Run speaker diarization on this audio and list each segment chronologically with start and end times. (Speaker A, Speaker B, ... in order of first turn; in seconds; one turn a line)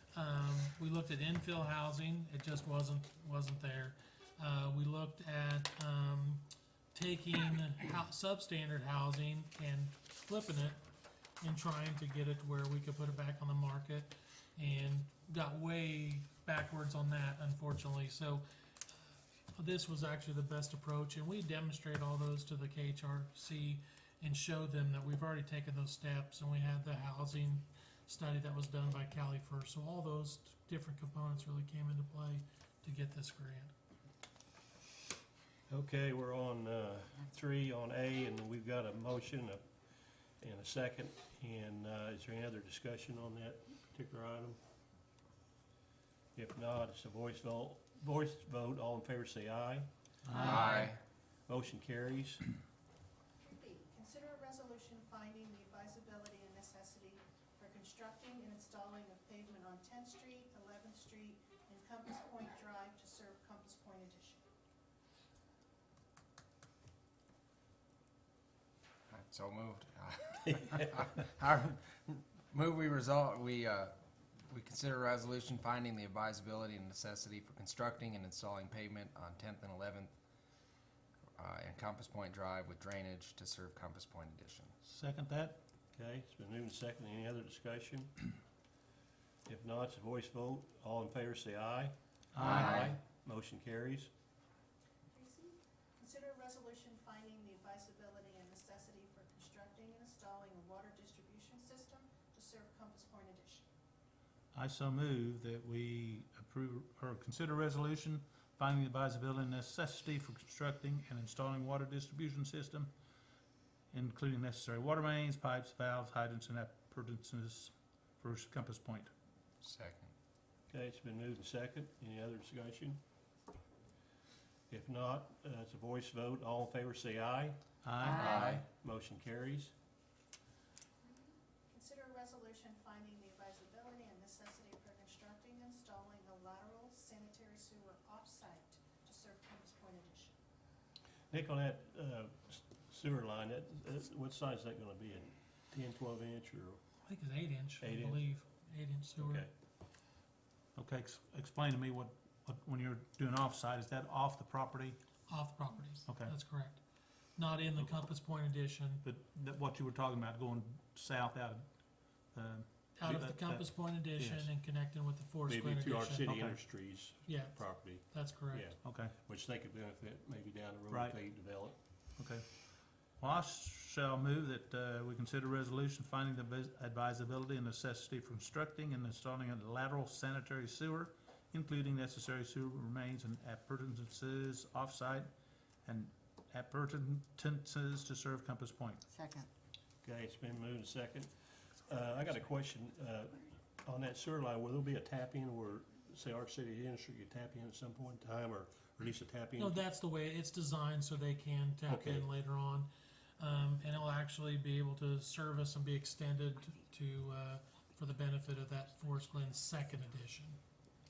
Speaker A: 0.1-6.4
Speaker A: 6.9-10.8
Speaker A: 11.4-18.4
Speaker A: 19.5-33.7
Speaker B: 35.7-39.7
Speaker B: 40.4-44.6
Speaker B: 46.4-49.9
Speaker C: 50.2-50.9
Speaker D: 50.4-51.0
Speaker B: 51.5-52.5
Speaker E: 53.4-64.4
Speaker D: 69.1-80.1
Speaker D: 81.4-84.8
Speaker C: 84.9-85.6
Speaker B: 85.9-88.1
Speaker B: 89.5-94.1
Speaker C: 92.3-92.9
Speaker D: 92.4-93.0
Speaker E: 95.1-103.7
Speaker C: 104.5-112.9
Speaker C: 113.9-119.1
Speaker D: 119.6-120.1
Speaker B: 120.7-123.0
Speaker B: 124.7-127.6
Speaker C: 127.8-128.6
Speaker D: 128.1-128.7
Speaker B: 128.1-129.7
Speaker E: 131.0-140.3
Speaker B: 141.3-146.8
Speaker A: 147.1-149.4
Speaker B: 147.8-148.3
Speaker B: 149.2-149.5
Speaker C: 150.8-155.0
Speaker A: 155.3-156.8
Speaker C: 156.1-156.3
Speaker A: 157.4-159.0
Speaker C: 159.0-161.7
Speaker C: 162.3-164.5
Speaker A: 163.0-166.3
Speaker B: 165.5-171.8
Speaker C: 166.2-166.6
Speaker A: 167.3-168.7
Speaker C: 168.8-169.2
Speaker C: 170.9-171.2
Speaker C: 172.2-172.7
Speaker C: 173.2-185.3
Speaker C: 185.8-189.0
Speaker B: 190.0-199.8
Speaker A: 199.6-210.6
Speaker B: 201.9-202.3